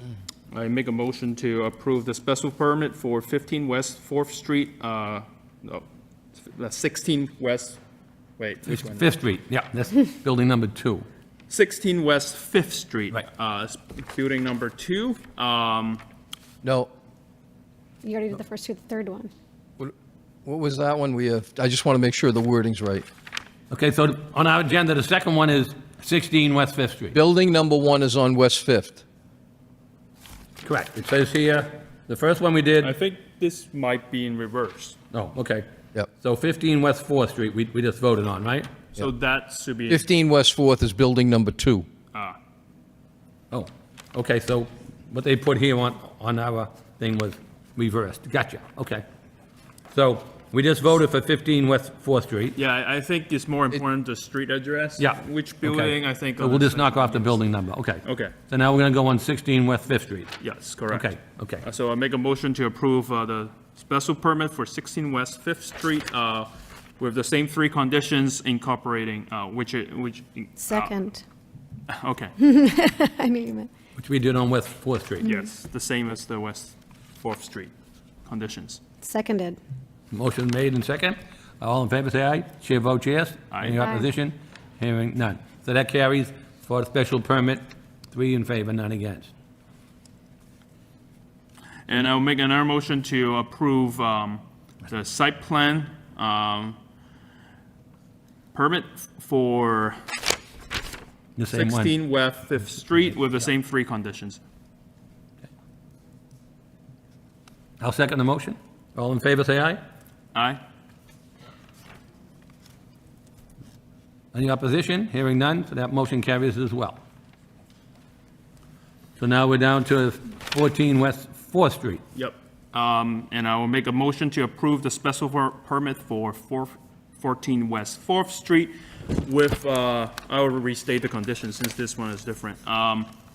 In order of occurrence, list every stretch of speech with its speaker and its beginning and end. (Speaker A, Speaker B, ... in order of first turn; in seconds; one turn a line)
Speaker A: 0.5-7.8
Speaker A: 8.4-9.1
Speaker B: 8.7-11.1
Speaker A: 11.5-16.0
Speaker C: 16.6-16.9
Speaker D: 18.0-19.3
Speaker C: 20.4-23.1
Speaker B: 23.7-27.2
Speaker C: 27.1-29.0
Speaker B: 30.6-32.9
Speaker A: 32.8-35.0
Speaker B: 35.1-38.7
Speaker A: 38.9-40.1
Speaker C: 39.9-41.9
Speaker A: 42.1-42.4
Speaker B: 43.5-49.0
Speaker B: 49.9-52.5
Speaker A: 52.5-57.4
Speaker B: 55.0-60.4
Speaker A: 58.0-58.3
Speaker A: 60.4-70.9
Speaker B: 60.9-61.6
Speaker D: 70.6-71.2
Speaker A: 71.9-72.4
Speaker D: 72.4-73.7
Speaker B: 74.0-75.3
Speaker A: 75.2-77.7
Speaker A: 78.2-78.8
Speaker D: 79.0-79.6
Speaker B: 80.1-89.3
Speaker A: 83.5-83.8
Speaker A: 91.9-96.8
Speaker A: 98.5-100.0
Speaker B: 101.3-101.9
Speaker A: 101.5-104.4
Speaker B: 107.8-109.8
Speaker A: 110.3-110.6
Speaker B: 114.3-117.0
Speaker B: 119.2-122.0
Speaker A: 122.1-133.1